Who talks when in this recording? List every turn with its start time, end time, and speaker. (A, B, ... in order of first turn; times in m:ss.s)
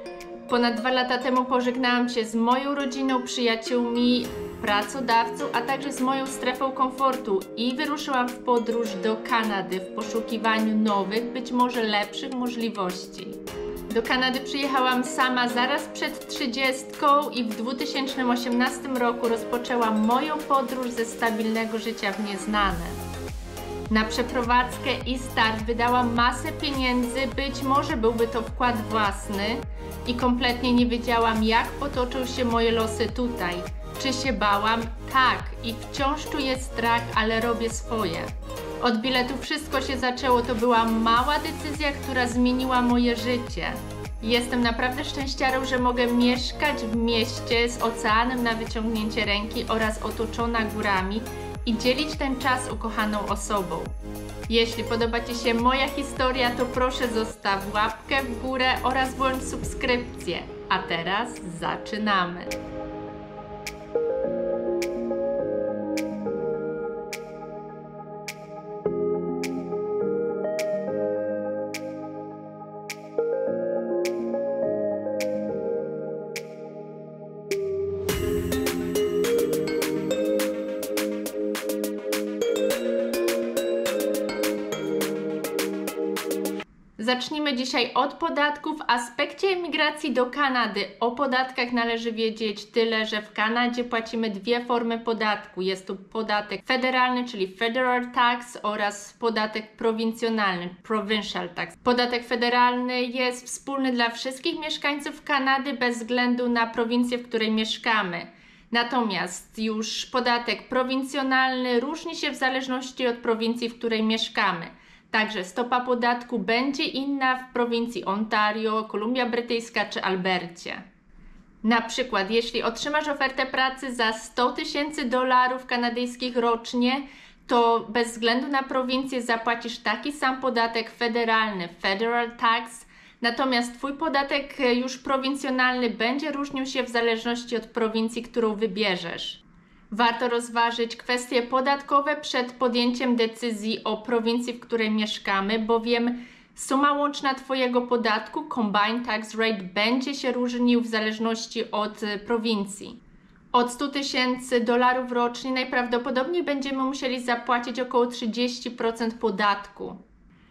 0:00.5-0:13.4 A
0:13.9-0:23.0 A
0:23.9-0:38.3 A
0:38.8-0:53.9 A
0:54.5-1:02.5 A
1:27.0-2:00.8 A
2:01.6-2:33.0 A
2:33.5-2:40.0 A